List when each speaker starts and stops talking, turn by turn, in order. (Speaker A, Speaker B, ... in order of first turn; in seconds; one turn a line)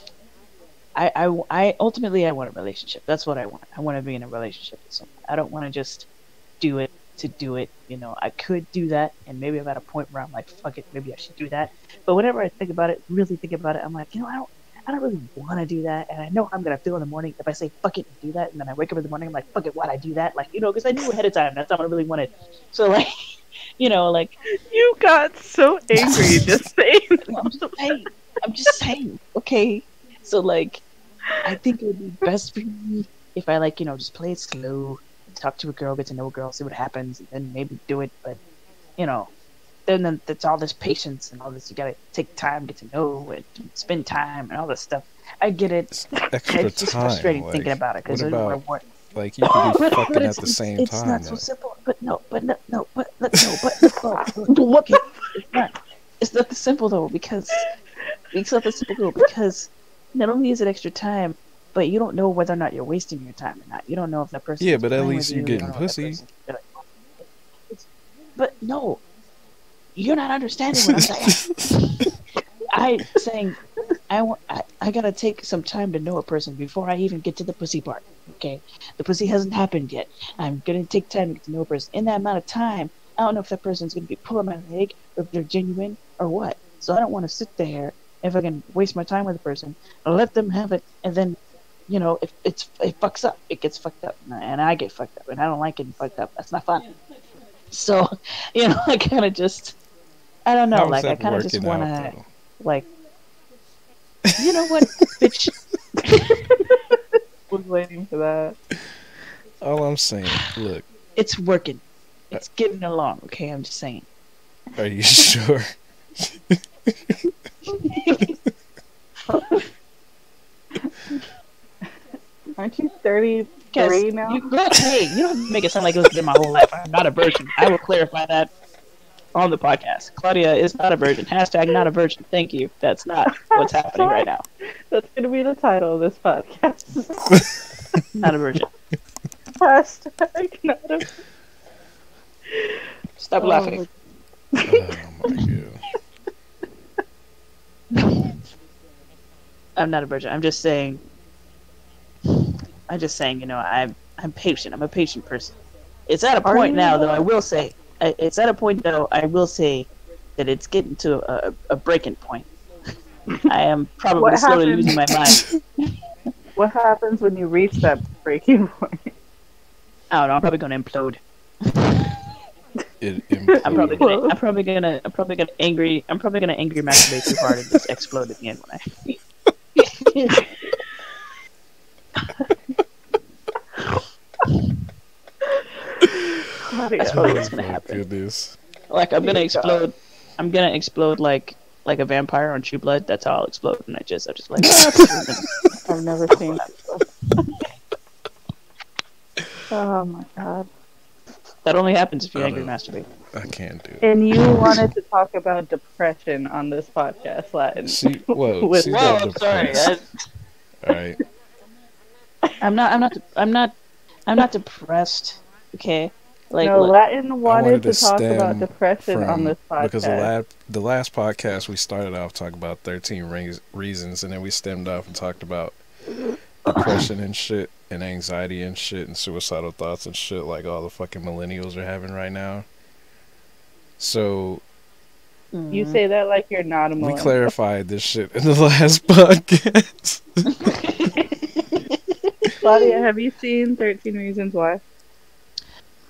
Speaker A: 0.9-6.1
Speaker A: 6.6-23.1
Speaker A: 23.8-24.3
Speaker B: 24.7-28.1
Speaker A: 26.0-26.6
Speaker A: 27.3-30.8
Speaker A: 31.4-38.4
Speaker A: 39.0-39.3
Speaker A: 39.9-45.9
Speaker C: 45.9-48.6
Speaker A: 46.5-48.9
Speaker C: 49.1-51.4
Speaker A: 49.5-57.6
Speaker B: 53.8-55.6
Speaker A: 58.3-69.0
Speaker B: 58.9-59.3
Speaker C: 64.6-66.2
Speaker A: 70.0-72.0
Speaker C: 70.8-71.7
Speaker A: 72.7-73.6
Speaker A: 74.1-96.9
Speaker A: 97.7-99.8
Speaker A: 100.5-102.9
Speaker C: 100.7-102.2
Speaker C: 104.3-105.1
Speaker A: 104.4-105.5
Speaker B: 106.0-107.0
Speaker B: 107.5-108.6
Speaker C: 109.6-110.9
Speaker A: 111.2-114.1
Speaker C: 114.8-117.2
Speaker A: 117.8-118.3
Speaker B: 119.3-119.7
Speaker B: 122.6-124.4
Speaker A: 123.8-128.5
Speaker A: 129.3-134.4
Speaker B: 133.3-134.3
Speaker B: 134.9-137.3
Speaker A: 138.2-138.7
Speaker B: 139.6-141.1
Speaker B: 142.5-143.9
Speaker A: 143.2-143.8
Speaker B: 144.6-145.4
Speaker C: 144.7-145.8
Speaker A: 149.8-151.0
Speaker A: 152.3-155.6
Speaker A: 156.1-162.5
Speaker B: 156.4-157.3
Speaker A: 163.5-165.9
Speaker B: 164.2-165.0
Speaker B: 166.6-169.1
Speaker A: 170.1-172.3
Speaker C: 173.0-174.1
Speaker B: 173.5-174.4
Speaker A: 173.6-179.2
Speaker C: 177.1-177.8
Speaker B: 180.1-180.5
Speaker B: 185.6-187.5
Speaker A: 186.8-188.0
Speaker C: 187.1-188.6
Speaker A: 188.9-195.5
Speaker B: 189.2-189.8
Speaker C: 194.7-195.2
Speaker B: 195.9-197.0
Speaker A: 196.3-196.8
Speaker B: 199.7-200.7
Speaker A: 201.6-203.1
Speaker C: 202.3-202.7
Speaker C: 203.3-204.1
Speaker B: 204.0-208.0
Speaker A: 204.4-204.8
Speaker C: 207.8-209.9
Speaker B: 208.6-209.8
Speaker A: 208.9-210.1
Speaker C: 210.8-211.2
Speaker A: 212.6-213.8
Speaker A: 214.3-216.9
Speaker B: 216.6-220.3
Speaker C: 217.4-225.8
Speaker C: 226.7-232.7
Speaker A: 226.7-227.1
Speaker C: 234.0-234.6
Speaker A: 235.5-236.0
Speaker B: 235.7-237.5
Speaker C: 237.0-240.5
Speaker A: 240.5-242.9
Speaker B: 242.6-244.8